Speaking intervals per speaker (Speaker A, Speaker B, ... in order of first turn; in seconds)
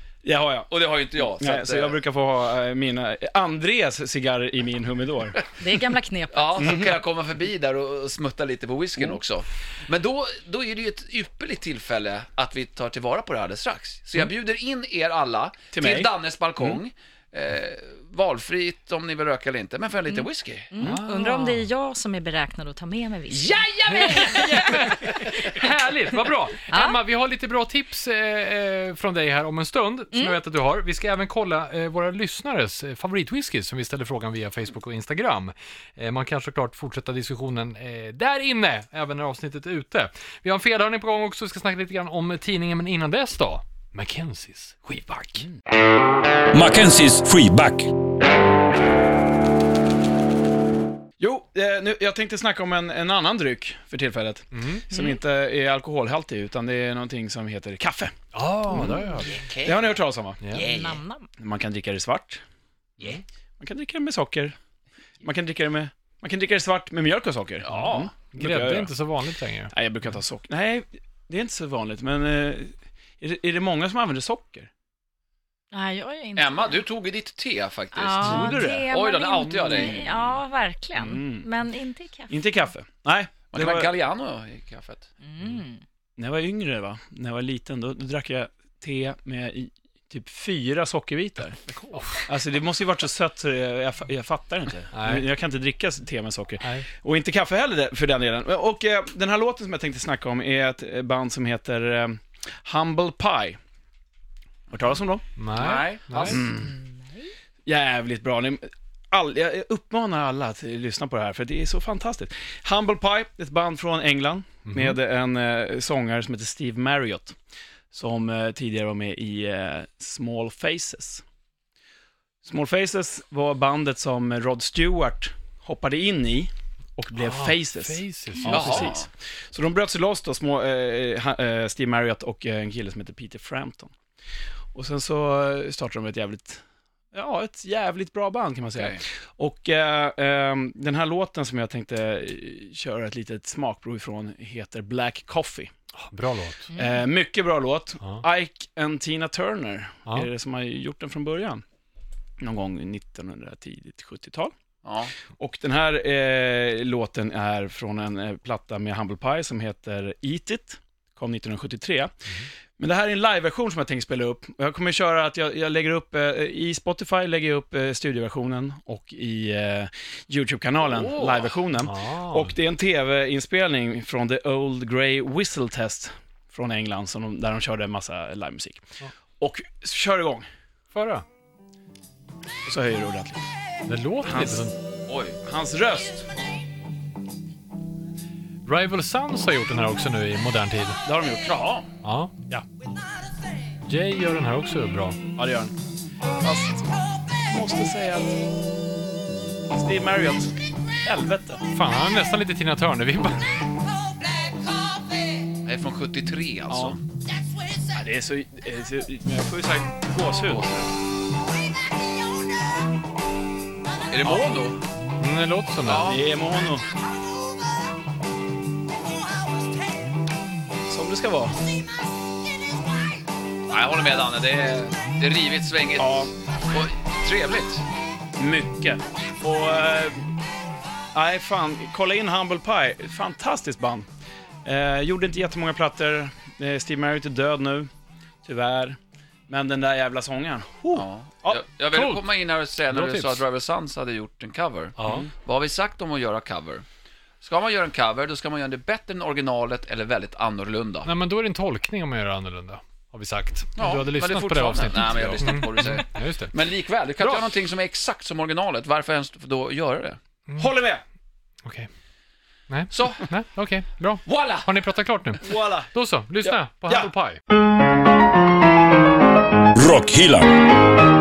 Speaker A: 0.2-5.4, 6.6-7.0, 15.7-16.8, 51.2-58.1, 58.7-59.0, 59.6-60.5, 61.4-62.4, 63.6-64.5, 65.2-68.9, 69.7-74.7, 78.2-78.9, 79.5-80.2, 81.0-81.5, 82.3-83.9, 86.2-103.6, 104.7-105.2, 106.3-106.7, 107.7-117.4, 117.9-121.2, 122.4-133.9, 134.7-145.7, 146.7-151.6, 152.4-154.5, 155.3-178.9, 179.4-180.5, 182.7-183.5, 184.2-184.7, 185.4-186.3, 191.0-191.8, 195.3-195.7, 196.3-198.5, 199.7-201.6, 206.7-207.0, 207.9-210.9, 216.0-216.9, 220.9-221.6, 226.0-226.3, 228.4-230.3, 231.1-234.1, 234.6-237.9, 238.4-239.0, 239.5-241.6, 260.6-261.0, 265.4-265.9, 266.4-267.1
Speaker B: 0.7-1.9, 6.3-20.7, 23.3-25.6, 58.7-59.8, 60.5-61.0, 67.6-68.1, 76.4-80.1, 83.5-85.1, 105.5-106.5, 128.4-129.1, 138.7-139.0, 154.8-155.1, 170.8-171.5, 185.1-185.4, 191.4-191.8, 205.6-207.0, 210.5-210.8, 214.1-214.8, 215.8-216.2, 223.7-227.8, 240.9-246.8, 247.4-251.1, 253.8-260.2, 262.9-263.2, 264.2-264.7
Speaker C: 5.6-6.8, 20.1-24.9, 26.7-27.0, 60.5-61.3, 75.7-76.8, 77.9-82.6, 85.2-85.8, 106.6-107.3, 146.7-147.0
Speaker D: 20.8-21.7, 24.4-45.5, 54.5-54.9, 58.3-59.3, 68.3-69.7, 91.9-92.2, 94.9-95.3, 105.4-106.4, 114.7-115.0, 127.2-128.9, 145.9-146.7, 171.8-172.5, 180.9-181.2, 183.9-184.8, 188.7-191.0, 192.0-192.6, 193.8-195.2, 201.7-203.6, 215.2-216.2, 241.9-242.2, 242.9-243.4, 245.0-245.3, 251.1-256.5, 262.7-267.4
Speaker E: 46.5-47.9, 269.7-270.6